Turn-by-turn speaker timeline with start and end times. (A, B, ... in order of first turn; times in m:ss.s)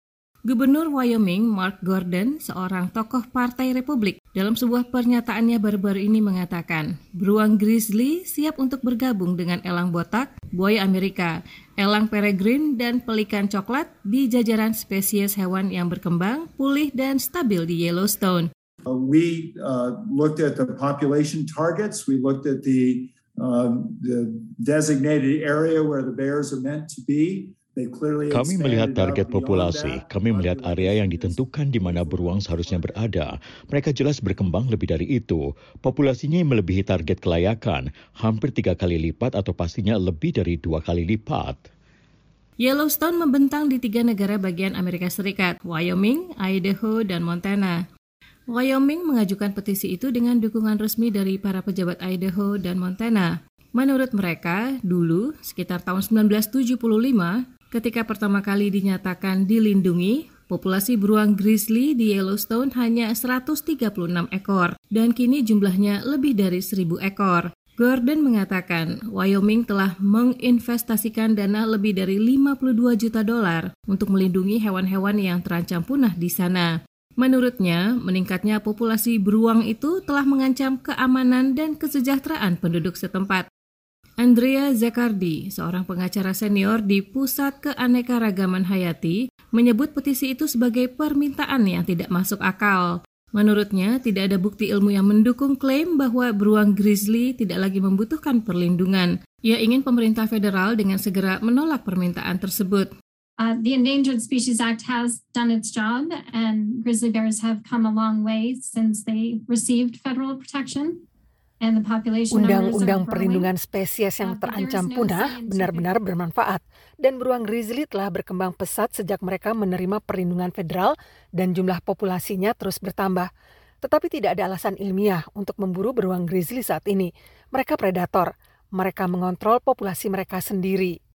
0:00.5-0:18.5 A
0:18.9-0:33.2 B
0:28.3-0:41.7 C
0:42.6-0:47.8 A
0:48.5-1:23.4 A
1:24.2-1:42.9 A
1:43.4-1:51.0 D
1:51.6-1:53.5 D
1:52.3-2:03.3 E
1:54.2-1:56.0 D
2:03.8-2:10.9 E